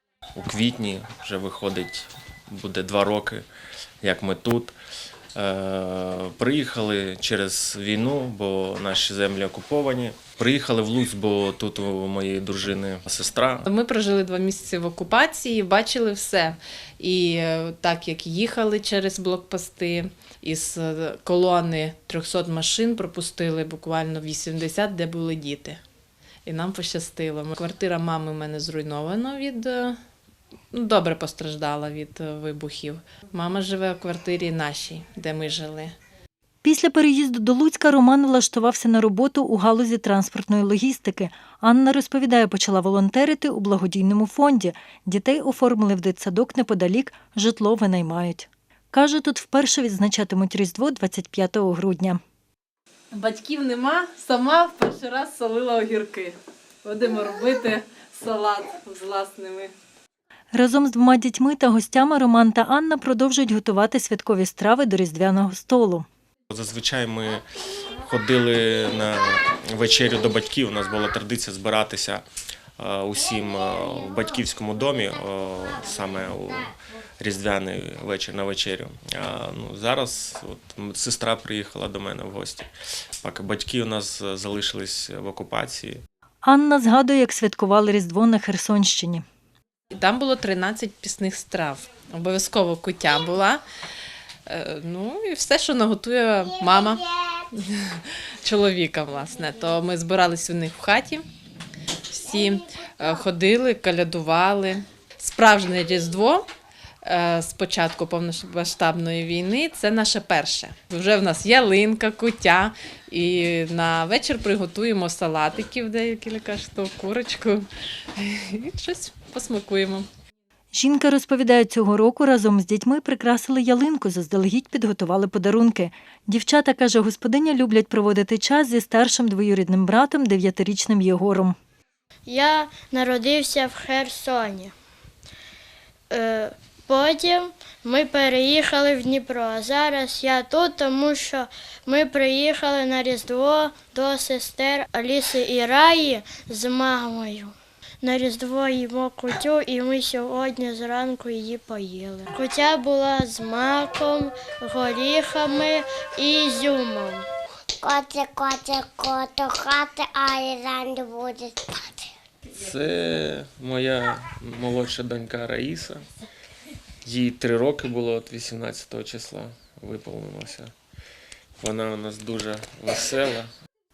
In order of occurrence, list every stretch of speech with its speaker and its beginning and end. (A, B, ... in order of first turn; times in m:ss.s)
0:00.4-0:03.4 A
0:04.0-0:04.7 A
0:05.4-0:13.7 A
0:13.7-0:25.8 B
0:26.4-0:30.0 B
0:30.7-0:35.9 B
0:36.6-0:52.2 C
0:53.1-0:59.7 B
1:00.5-1:06.0 C
1:06.5-1:07.4 A
1:08.0-1:12.2 A
1:12.8-1:22.7 A
1:23.2-1:26.0 A
1:26.4-1:29.2 C
1:29.9-1:33.6 B
1:34.5-1:41.2 B
1:42.1-1:46.5 B
1:47.0-2:00.1 B
2:00.7-2:11.6 C
2:12.3-2:14.7 D
2:16.1-2:37.3 D
2:37.8-2:42.1 E
2:42.5-2:46.1 A
2:47.0-2:50.7 A
2:51.6-2:53.5 A